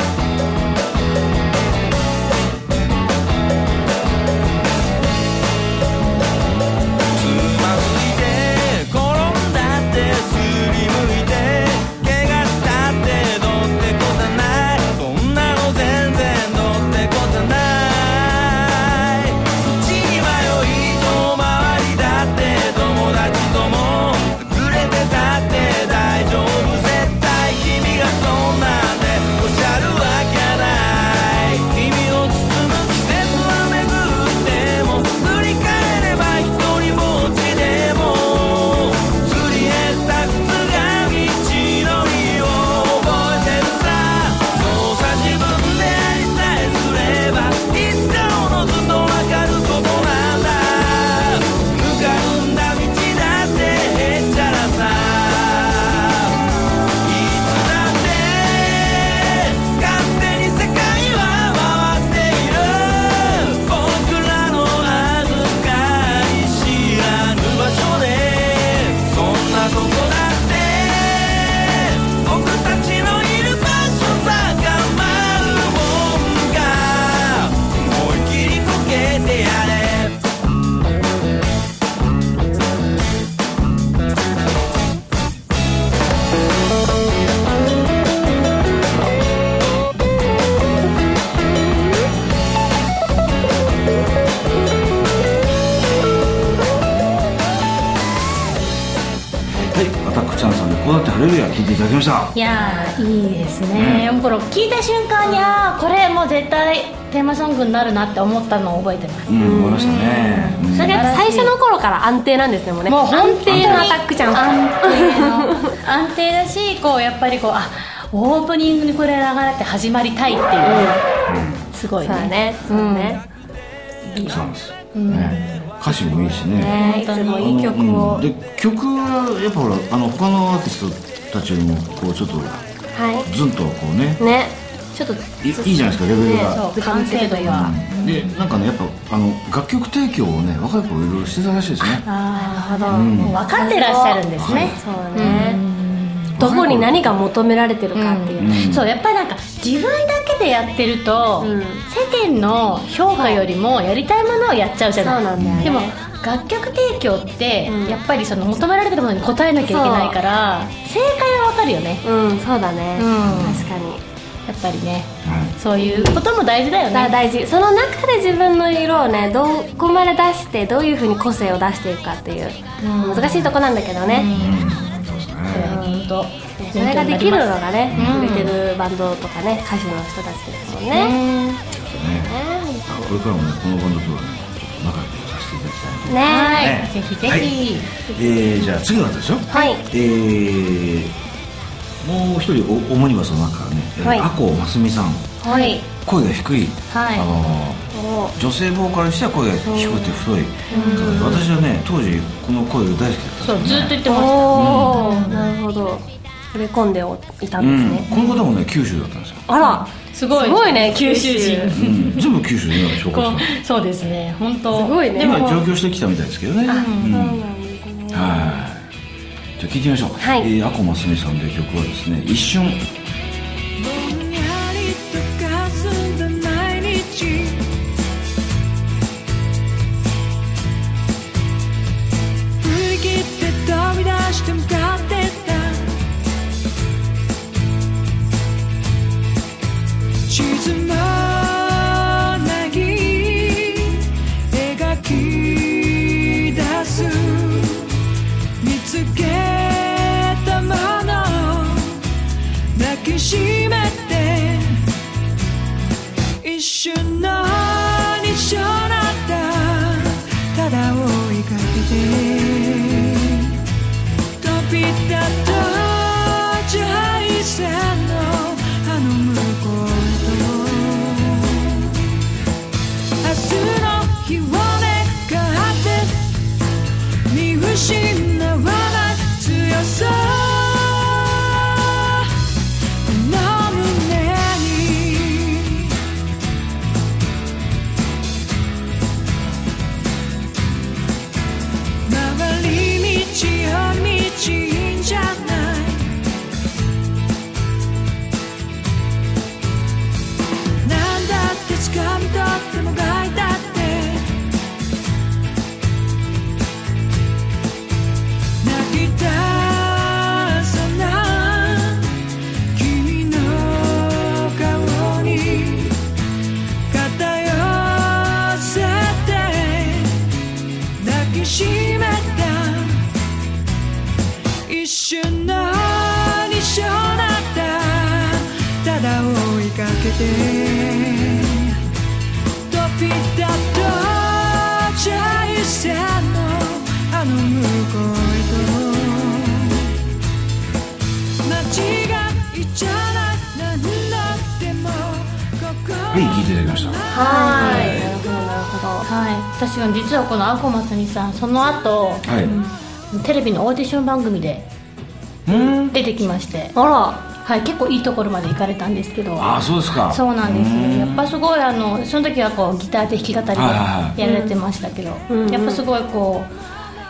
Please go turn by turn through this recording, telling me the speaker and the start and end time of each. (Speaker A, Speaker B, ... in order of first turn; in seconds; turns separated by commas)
Speaker A: 7.1-56.3, Speaker A: 57.0-80.2, Speaker B: 99.7-102.3, Speaker C: 102.3-111.5, Speaker B: 103.7-104.1, Speaker B: 109.3-111.2, Speaker D: 109.4-110.0, Speaker D: 110.7-115.8, Speaker C: 112.9-121.0, Speaker B: 113.5-114.0, Speaker D: 120.6-121.0, Speaker B: 121.3-121.6, Speaker C: 121.7-123.2, Speaker D: 122.0-123.2, Speaker C: 124.1-127.6, Speaker B: 124.2-126.8, Speaker D: 126.4-128.2, Speaker B: 127.4-132.6, Speaker D: 132.9-133.3, Speaker B: 133.2-134.2, Speaker D: 134.2-134.5, Speaker B: 135.4-136.6, Speaker D: 136.0-137.7, Speaker C: 136.5-138.4, Speaker B: 137.4-142.0, Speaker C: 141.8-146.4, Speaker D: 142.4-145.6, Speaker B: 142.9-143.4, Speaker B: 144.4-145.5, Speaker B: 146.3-147.1, Speaker D: 146.4-148.6, Speaker C: 147.9-162.0, Speaker B: 148.4-148.8, Speaker D: 151.4-151.8, Speaker D: 153.2-153.4, Speaker D: 155.0-155.9, Speaker B: 155.3-155.7, Speaker D: 157.7-158.0, Speaker D: 159.6-160.2, Speaker D: 162.0-164.0, Speaker C: 162.9-163.7, Speaker B: 163.2-163.6, Speaker C: 164.5-167.2, Speaker B: 165.2-165.5, Speaker D: 165.8-166.2, Speaker D: 166.9-174.3, Speaker C: 172.8-178.6, Speaker B: 174.3-175.8, Speaker D: 175.6-176.0, Speaker D: 176.6-181.2, Speaker B: 177.9-178.2, Speaker C: 180.9-181.6, Speaker B: 181.7-187.5, Speaker D: 182.2-183.1, Speaker D: 186.1-186.7, Speaker C: 186.2-187.9, Speaker B: 188.1-191.1, Speaker D: 189.5-189.8, Speaker B: 192.0-195.4, Speaker D: 194.0-194.3, Speaker D: 195.4-195.8, Speaker C: 195.4-195.8, Speaker B: 196.0-205.1, Speaker C: 196.9-197.3, Speaker D: 197.9-198.3, Speaker C: 199.7-200.1, Speaker C: 200.7-201.4, Speaker D: 200.7-201.4, Speaker C: 203.4-205.5, Speaker D: 204.0-208.1, Speaker B: 207.6-209.5, Speaker C: 208.1-208.4, Speaker D: 209.5-211.8, Speaker C: 209.6-212.3, Speaker B: 211.7-213.5, Speaker C: 213.0-215.6, Speaker D: 214.7-215.5, Speaker B: 215.2-217.4, Speaker D: 216.7-218.6, Speaker C: 216.7-217.2, Speaker B: 218.1-218.9, Speaker B: 219.6-222.8, Speaker D: 220.2-220.5, Speaker E: 223.8-227.7, Speaker E: 232.6-235.9, Speaker E: 240.3-247.9, Speaker E: 248.6-252.0, Speaker E: 252.7-254.8, Speaker E: 256.4-263.5, Speaker E: 264.4-272.0, Speaker E: 273.2-276.3, Speaker E: 277.3-282.3, Speaker E: 283.0-285.9, Speaker E: 292.1-296.2, Speaker E: 300.8-304.3, Speaker E: 308.6-312.1, Speaker E: 312.7-316.0, Speaker E: 316.9-320.2, Speaker E: 321.0-323.1, Speaker E: 324.6-331.8, Speaker E: 332.7-339.9, Speaker E: 341.4-348.1, Speaker B: 346.1-347.0, Speaker D: 347.1-349.1, Speaker C: 347.2-347.9, Speaker B: 347.6-348.2, Speaker C: 349.0-352.3, Speaker B: 352.2-352.6, Speaker D: 352.4-352.7, Speaker C: 353.1-354.7, Speaker B: 355.4-356.0, Speaker C: 355.5-356.7, Speaker D: 356.7-357.2, Speaker C: 357.4-366.5, Speaker B: 359.4-361.3, Speaker B: 363.5-364.2, Speaker D: 364.2-364.6, Speaker D: 365.3-365.8